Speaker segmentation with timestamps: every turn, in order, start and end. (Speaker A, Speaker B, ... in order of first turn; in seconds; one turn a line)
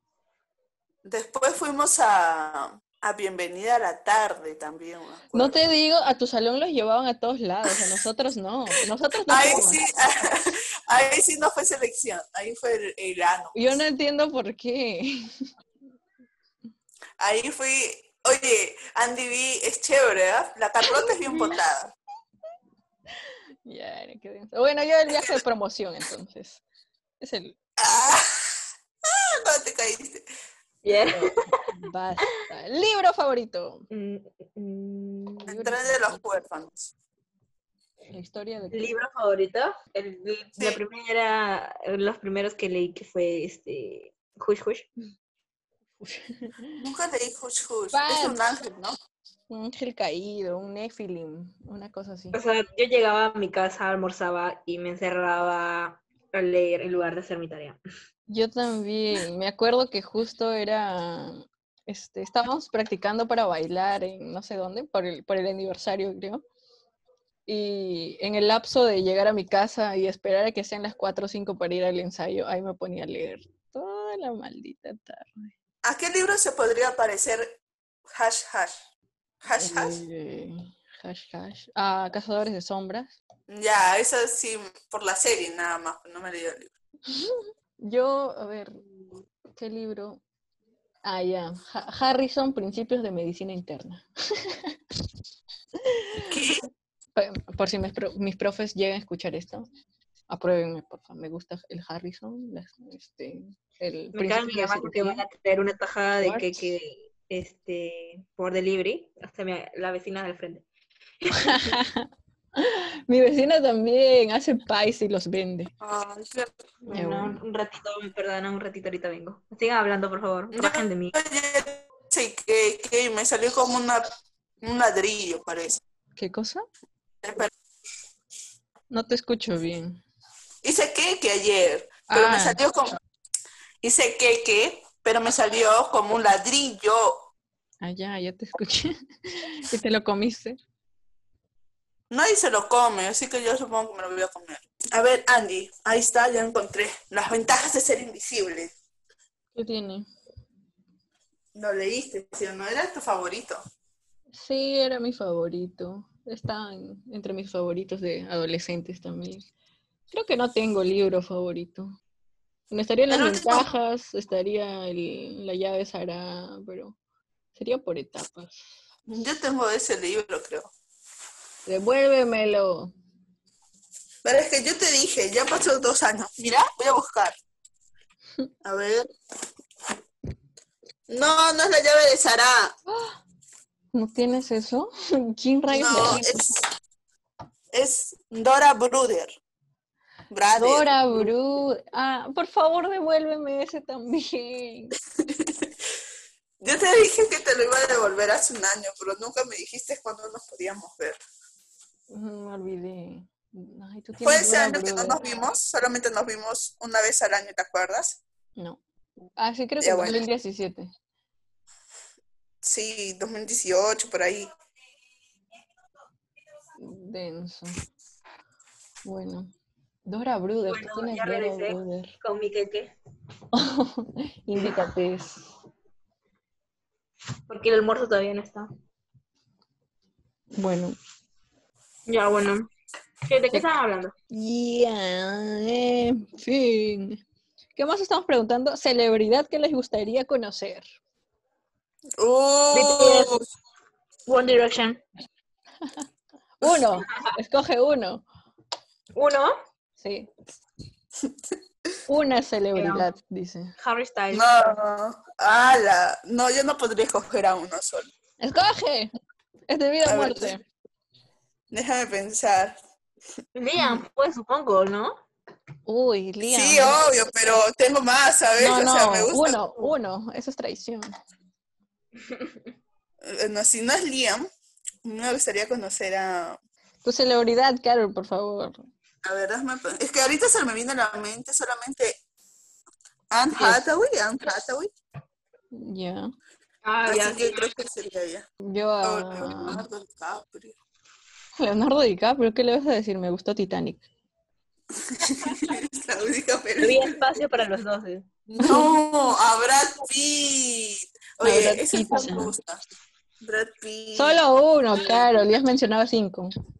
Speaker A: 1.0-5.6
Speaker B: 5.3-9.8
Speaker A: 9.3-13.7
Speaker B: 13.5-15.4
Speaker A: 17.2-21.9
Speaker B: 23.6-26.6
Speaker B: 27.2-27.6
Speaker A: 27.8-28.3
Speaker A: 29.1-30.2
Speaker C: 30.8-31.3
Speaker B: 31.1-33.9
Speaker C: 33.9-35.6
Speaker B: 35.5-36.2
Speaker A: 35.5-36.9
Speaker B: 38.1-38.9
Speaker C: 38.7-44.9
Speaker B: 46.0-46.8
Speaker A: 46.8-48.9
Speaker B: 47.9-48.4
Speaker B: 49.5-52.4
Speaker C: 52.3-57.8
Speaker B: 58.3-66.4
Speaker B: 67.5-75.5
Speaker A: 75.8-77.6
Speaker A: 78.1-78.7
Speaker A: 79.4-80.0
Speaker B: 79.6-83.1
Speaker A: 83.5-86.7
Speaker B: 87.1-88.8
Speaker B: 89.5-90.2
Speaker B: 91.0-94.7
Speaker B: 95.8-96.3
Speaker A: 96.3-96.6
Speaker B: 97.2-99.7
Speaker B: 100.3-105.2
Speaker C: 104.1-110.7
Speaker B: 106.2-106.6
Speaker C: 111.2-111.7
Speaker B: 111.3-115.7
Speaker A: 115.8-116.5
Speaker C: 116.8-121.1
Speaker B: 116.9-117.4
Speaker A: 120.5-124.1
Speaker A: 124.6-125.8
Speaker B: 126.2-126.7
Speaker A: 127.2-127.5
Speaker B: 128.9-130.0
Speaker A: 130.6-132.9
Speaker B: 132.1-132.6
Speaker A: 133.8-137.3
Speaker B: 137.8-140.6
Speaker A: 142.1-148.7
Speaker B: 149.5-150.1
Speaker A: 151.5-153.6
Speaker B: 154.3-159.5
Speaker B: 160.1-161.9
Speaker B: 162.7-166.9
Speaker A: 163.1-163.7
Speaker B: 167.5-168.6
Speaker A: 169.1-170.7
Speaker B: 171.7-172.9
Speaker A: 174.2-177.4
Speaker A: 178.6-179.1
Speaker A: 181.1-182.7
Speaker B: 182.9-183.2
Speaker B: 183.9-186.6
Speaker A: 185.7-186.6
Speaker A: 187.7-189.3
Speaker A: 190.3-191.3
Speaker B: 190.6-194.9
Speaker A: 196.6-201.2
Speaker B: 202.1-205.2
Speaker A: 204.2-208.2
Speaker B: 209.4-210.9
Speaker A: 209.8-210.2
Speaker A: 212.6-214.5
Speaker B: 216.8-217.8
Speaker B: 219.0-219.5
Speaker B: 220.1-222.1
Speaker C: 220.7-222.9
Speaker B: 223.5-225.5
Speaker C: 227.5-228.7
Speaker B: 230.6-231.0
Speaker C: 232.1-232.7
Speaker C: 233.3-234.1
Speaker B: 234.3-237.2
Speaker B: 237.7-240.8
Speaker A: 242.2-243.4
Speaker C: 242.7-243.3
Speaker C: 244.3-245.0
Speaker B: 246.6-248.2
Speaker C: 249.2-249.5
Speaker B: 250.0-250.3
Speaker B: 252.1-253.7
Speaker C: 252.7-253.1
Speaker C: 253.8-254.5
Speaker A: 254.3-258.1
Speaker B: 258.4-259.1
Speaker B: 259.7-260.6
Speaker A: 260.0-260.6
Speaker A: 261.7-262.8
Speaker C: 263.6-265.2
Speaker B: 265.9-267.0
Speaker A: 266.4-269.6
Speaker B: 268.6-271.1
Speaker C: 272.2-272.5
Speaker A: 273.2-274.5
Speaker A: 275.0-276.6
Speaker B: 277.0-278.8
Speaker A: 279.2-282.1
Speaker A: 283.3-284.9
Speaker B: 283.5-283.8
Speaker B: 285.7-286.3
Speaker C: 286.8-287.8
Speaker A: 287.1-288.5
Speaker B: 288.6-289.8
Speaker A: 289.0-290.8
Speaker B: 291.6-294.0
Speaker A: 294.9-297.4
Speaker C: 295.4-295.7
Speaker C: 296.8-298.8
Speaker B: 298.6-298.9
Speaker A: 298.6-302.8
Speaker B: 301.4-302.5
Speaker A: 303.4-304.4
Speaker B: 304.1-306.5